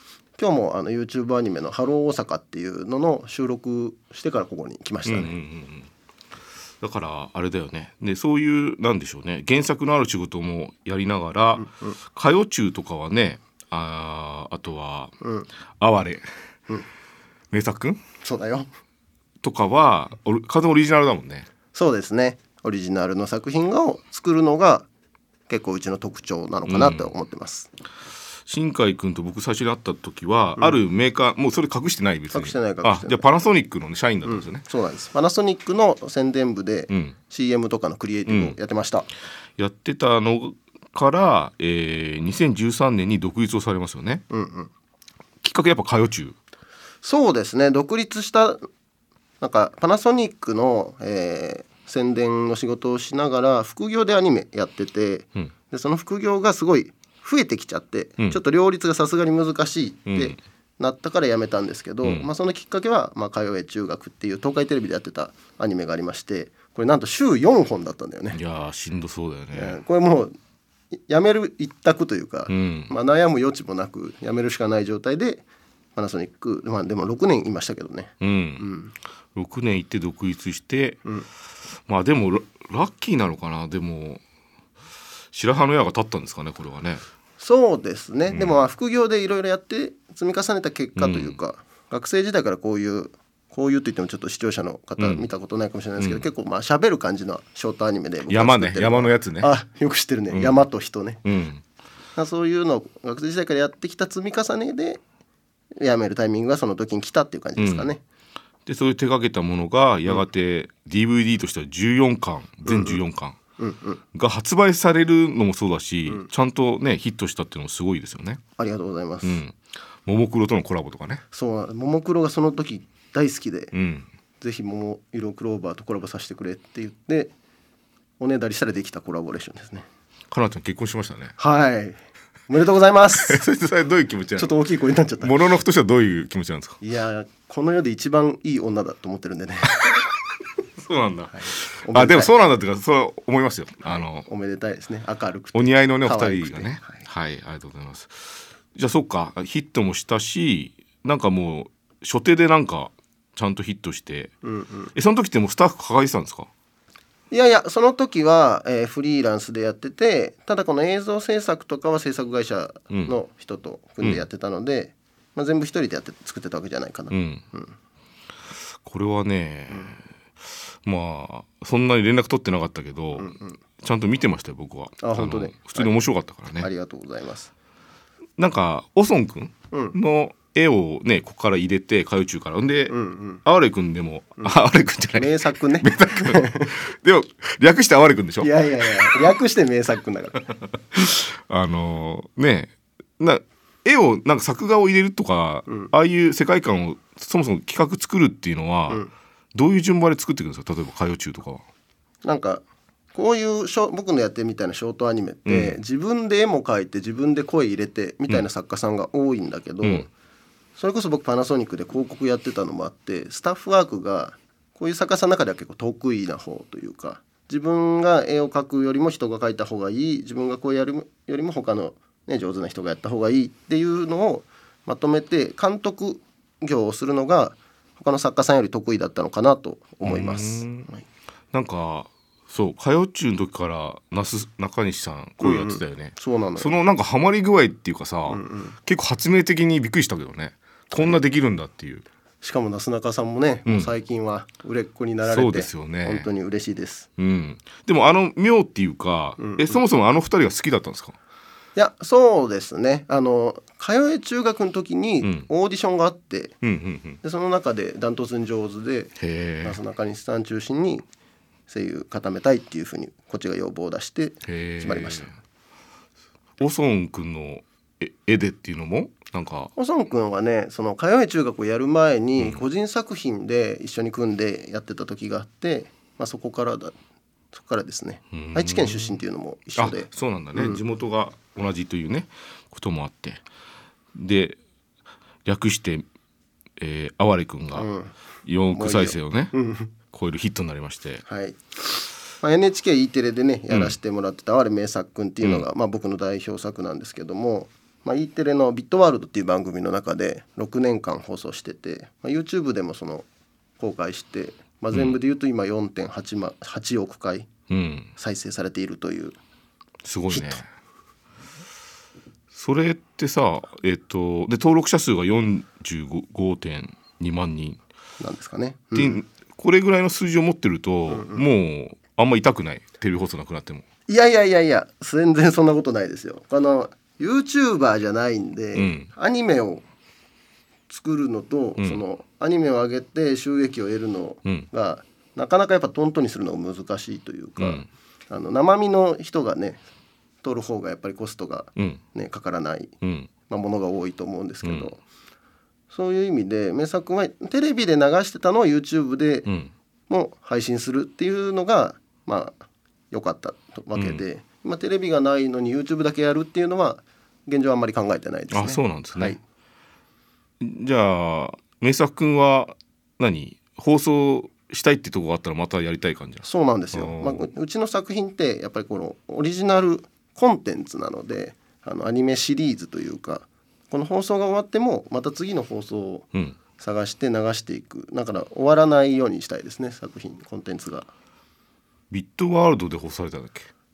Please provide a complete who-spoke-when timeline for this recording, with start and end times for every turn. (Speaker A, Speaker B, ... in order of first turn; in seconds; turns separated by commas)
Speaker A: 0.4-5.3, Speaker B: 5.0-5.9, Speaker B: 6.8-15.2, Speaker A: 11.6-12.0, Speaker A: 15.2-15.5, Speaker B: 15.8-16.2, Speaker B: 17.5-18.0, Speaker A: 18.2-18.7, Speaker B: 19.4-21.5, Speaker A: 21.7-24.9, Speaker A: 25.5-27.7, Speaker B: 26.7-27.1, Speaker B: 28.5-34.6, Speaker A: 32.3-33.2, Speaker A: 34.2-39.1, Speaker B: 36.9-37.1, Speaker B: 38.3-38.6, Speaker B: 39.6-44.2, Speaker A: 44.3-44.7, Speaker B: 45.4-46.4, Speaker A: 47.0-48.7, Speaker A: 49.4-68.4, Speaker B: 60.1-60.4, Speaker B: 62.0-62.3, Speaker B: 68.3-69.8, Speaker A: 69.5-70.3, Speaker A: 70.9-75.4, Speaker B: 72.5-72.9, Speaker A: 76.0-78.9, Speaker B: 78.2-78.7, Speaker B: 79.3-81.0, Speaker B: 81.9-84.2, Speaker B: 85.3-87.0, Speaker A: 87.4-101.2, Speaker B: 88.3-88.6, Speaker B: 91.0-91.4, Speaker B: 95.0-95.2, Speaker B: 96.0-96.3, Speaker B: 98.3-99.5, Speaker B: 100.3-100.6, Speaker B: 101.2-101.6, Speaker A: 102.2-105.0, Speaker A: 105.8-108.0, Speaker B: 107.6-107.9, Speaker B: 108.7-113.4, Speaker A: 112.7-113.0, Speaker A: 113.6-114.0, Speaker B: 114.1-118.4, Speaker A: 118.6-119.4, Speaker B: 119.2-121.2, Speaker A: 121.3-123.7, Speaker B: 123.7-124.1, Speaker A: 124.4-127.3, Speaker A: 128.2-129.9, Speaker B: 130.3-131.3, Speaker A: 131.4-132.0, Speaker A: 132.5-133.5, Speaker B: 133.2-134.6, Speaker A: 134.4-135.3, Speaker B: 135.2-136.8, Speaker A: 136.8-139.8, Speaker B: 140.8-144.3, Speaker A: 141.3-142.3, Speaker A: 143.8-147.0, Speaker B: 145.5-154.3, Speaker A: 154.4-154.9, Speaker B: 154.9-156.5, Speaker A: 157.3-167.7, Speaker B: 162.9-163.2, Speaker B: 167.1-167.4, Speaker B: 168.8-170.0, Speaker B: 170.8-176.7, Speaker A: 173.2-173.6, Speaker A: 175.0-176.0, Speaker A: 176.6-177.5, Speaker B: 178.4-189.3, Speaker A: 179.7-180.0, Speaker A: 182.9-183.4, Speaker A: 185.1-186.8, Speaker A: 188.4-190.4, Speaker B: 190.9-199.0, Speaker B: 199.5-201.6, Speaker A: 202.2-210.1, Speaker B: 205.5-205.8, Speaker B: 209.8-210.1, Speaker A: 210.8-231.0, Speaker B: 230.0-230.9, Speaker B: 231.5-242.1, Speaker A: 235.4-236.8, Speaker A: 238.3-238.8, Speaker A: 240.9-241.2, Speaker A: 242.4-247.1, Speaker B: 243.7-243.9, Speaker B: 245.2-246.3, Speaker B: 247.2-251.2, Speaker A: 249.4-249.8, Speaker A: 251.8-256.6, Speaker B: 256.6-257.2, Speaker A: 257.2-261.1, Speaker B: 259.2-259.8, Speaker A: 261.7-265.3, Speaker B: 264.4-265.4, Speaker B: 266.6-269.7, Speaker A: 269.8-276.9, Speaker B: 272.4-272.6, Speaker A: 277.5-280.8, Speaker B: 278.3-279.2, Speaker B: 279.8-283.4, Speaker B: 284.1-284.6, Speaker B: 285.4-286.1, Speaker B: 286.8-287.9, Speaker A: 287.7-288.1, Speaker B: 288.5-289.5, Speaker A: 288.7-289.9, Speaker B: 290.1-291.2, Speaker A: 291.3-291.6, Speaker A: 292.4-303.3, Speaker B: 293.7-294.0, Speaker A: 303.8-307.5, Speaker B: 304.9-305.2, Speaker B: 307.7-308.1, Speaker A: 308.2-309.4, Speaker B: 310.0-310.7, Speaker A: 310.3-310.6, Speaker B: 312.5-317.8, Speaker A: 318.2-319.2, Speaker B: 318.9-323.9, Speaker A: 321.1-321.4, Speaker A: 324.1-329.9, Speaker B: 328.7-329.1, Speaker A: 330.9-339.8, Speaker B: 337.6-337.9, Speaker A: 340.4-342.9, Speaker B: 341.8-342.0, Speaker B: 343.0-343.3, Speaker A: 343.5-345.0, Speaker B: 344.6-344.9, Speaker A: 345.9-349.5, Speaker B: 349.5-349.7, Speaker A: 350.1-352.6, Speaker A: 353.1-359.4, Speaker B: 353.9-354.2, Speaker B: 358.5-359.4, Speaker B: 360.6-367.5, Speaker A: 366.4-376.3, Speaker A: 376.8-381.1, Speaker B: 382.1-383.7